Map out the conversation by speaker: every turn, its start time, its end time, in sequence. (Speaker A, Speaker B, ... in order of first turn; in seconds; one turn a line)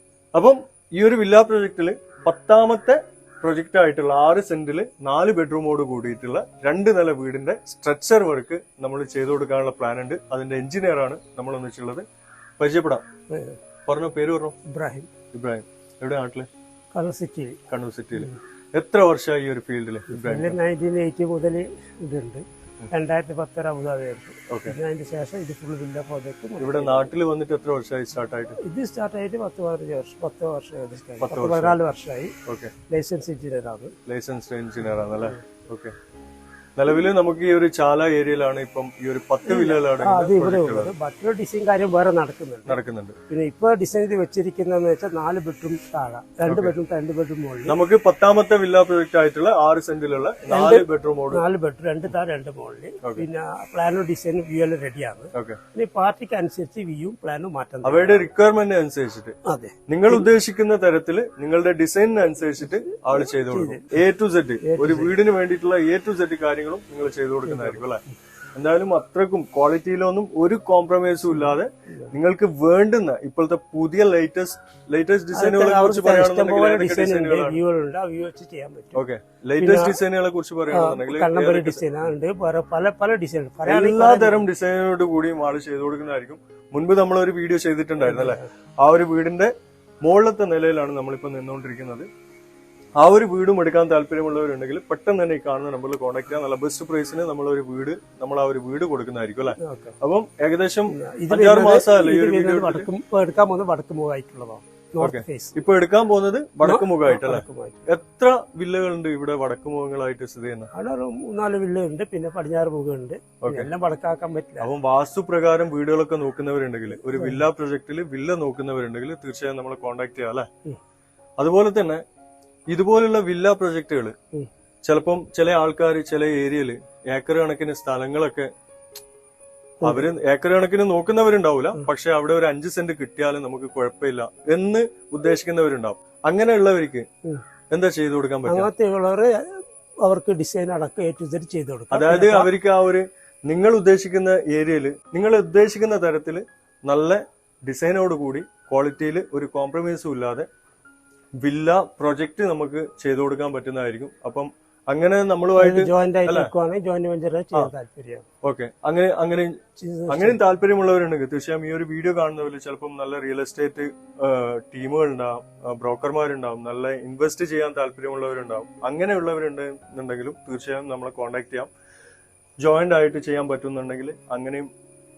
Speaker A: 0.3-12.0
Speaker A: 12.6-13.0
Speaker B: 13.3-13.6
Speaker A: 13.9-14.6
Speaker B: 14.7-15.1
Speaker A: 15.3-16.5
Speaker B: 16.9-17.6
Speaker A: 17.7-20.6
Speaker B: 20.1-27.1
Speaker A: 24.5-24.8
Speaker A: 26.6-28.6
Speaker B: 28.6-32.3
Speaker A: 31.2-31.8
Speaker A: 32.5-32.7
Speaker B: 32.9-33.9
Speaker A: 34.0-35.9
Speaker A: 36.8-40.9
Speaker B: 39.5-42.8
Speaker A: 42.7-43.2
Speaker B: 43.3-47.8
Speaker A: 46.5-46.7
Speaker A: 47.6-51.4
Speaker B: 50.5-58.3
Speaker A: 55.3-55.6
Speaker A: 57.8-59.4
Speaker B: 59.4-60.2
Speaker A: 59.9-68.0
Speaker B: 62.6-64.0
Speaker B: 64.6-65.2
Speaker B: 67.4-67.9
Speaker A: 68.5-77.6
Speaker B: 71.3-72.1
Speaker B: 75.3-79.0
Speaker A: 78.9-81.9
Speaker B: 79.6-80.0
Speaker B: 80.7-84.5
Speaker A: 83.7-89.5
Speaker B: 88.0-88.5
Speaker A: 90.0-92.1
Speaker A: 93.0-102.9
Speaker B: 99.6-100.0
Speaker B: 100.9-105.5
Speaker A: 105.0-110.7
Speaker B: 106.6-107.8
Speaker B: 110.7-114.7
Speaker A: 113.4-113.7
Speaker A: 114.6-120.5
Speaker B: 117.0-117.4
Speaker A: 121.4-122.0
Speaker A: 122.7-124.1
Speaker A: 124.8-128.5
Speaker B: 129.8-130.1
Speaker A: 129.8-137.1
Speaker A: 137.7-138.7
Speaker B: 138.4-142.5
Speaker A: 141.9-150.5
Speaker A: 151.4-156.5
Speaker B: 155.6-158.2
Speaker A: 158.4-159.6
Speaker B: 159.8-160.4
Speaker A: 160.1-171.7
Speaker A: 172.6-174.7